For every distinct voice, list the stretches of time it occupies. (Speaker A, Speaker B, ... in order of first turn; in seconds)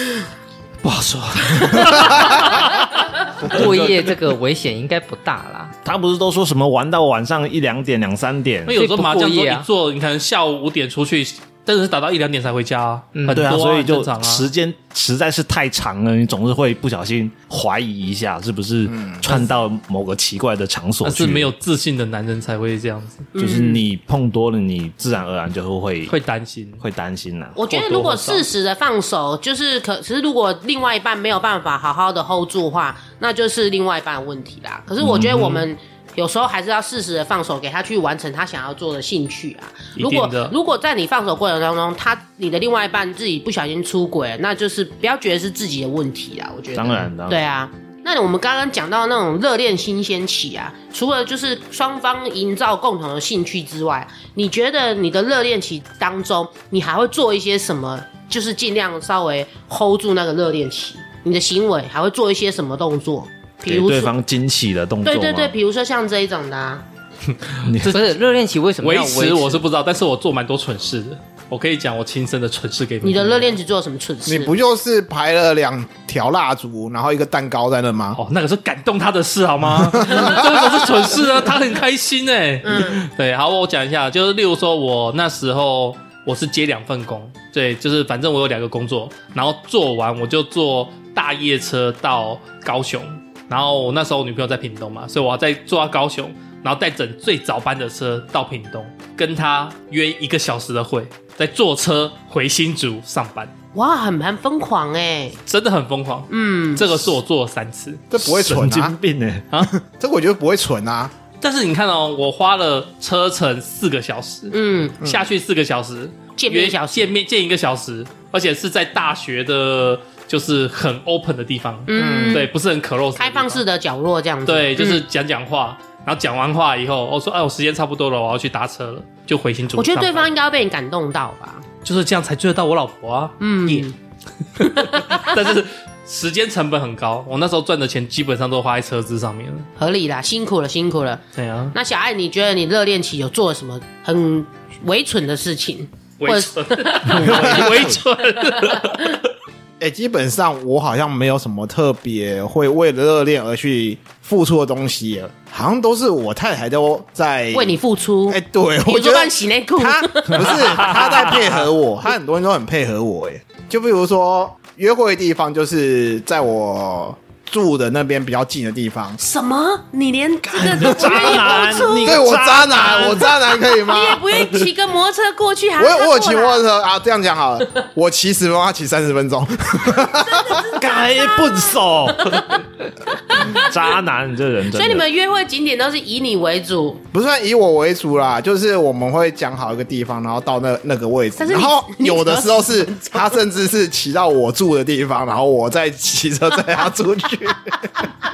Speaker A: 0.8-2.4, 3.4-4.1, 5.8-8.8, 13.3-21.5, 23.4-26.1, 26.8-27.8, 46.7-47.4, 63.6-65.5, 67.6-68.0, 108.2-109.5, 170.5-173.1, 180.8-182.6, 183.4-185.0
Speaker B: 0.8-2.7, 8.7-14.5, 21.0-23.3, 26.1-26.8, 27.8-28.4, 35.2-35.6, 39.9-40.5, 67.7-68.0, 68.8-73.6, 78.1-103.5, 105.5-108.0, 111.4-123.6, 124.5-130.3, 131.8-133.9, 134.6-139.7, 141.3-141.8, 146.2-149.2
Speaker C: 3.4-5.7, 8.7-9.7, 13.1-13.5, 67.8-69.6
Speaker D: 18.9-19.2, 74.2-78.2, 79.9-80.4, 108.1-108.9, 109.7-111.1, 121.9-122.5, 147.3-147.9, 149.8-157.8, 158.3-169.2, 172.0-174.2, 175.8-180.6, 187.1-198.1
Speaker E: 23.4-23.8, 27.5-64.1, 65.0-66.8, 73.0-74.5, 82.6-83.0, 103.7-105.4, 106.3-107.0, 114.5-115.0, 116.4-117.1, 121.9-122.5, 123.2-125.0, 129.8-131.6, 133.4-133.9, 134.6-135.3, 139.8-141.2, 141.7-147.9, 148.6-148.9, 157.5-161.5, 169.2-176.6, 180.2-181.6, 182.2-182.5, 183.3-183.8, 184.7-187.0, 191.4-193.3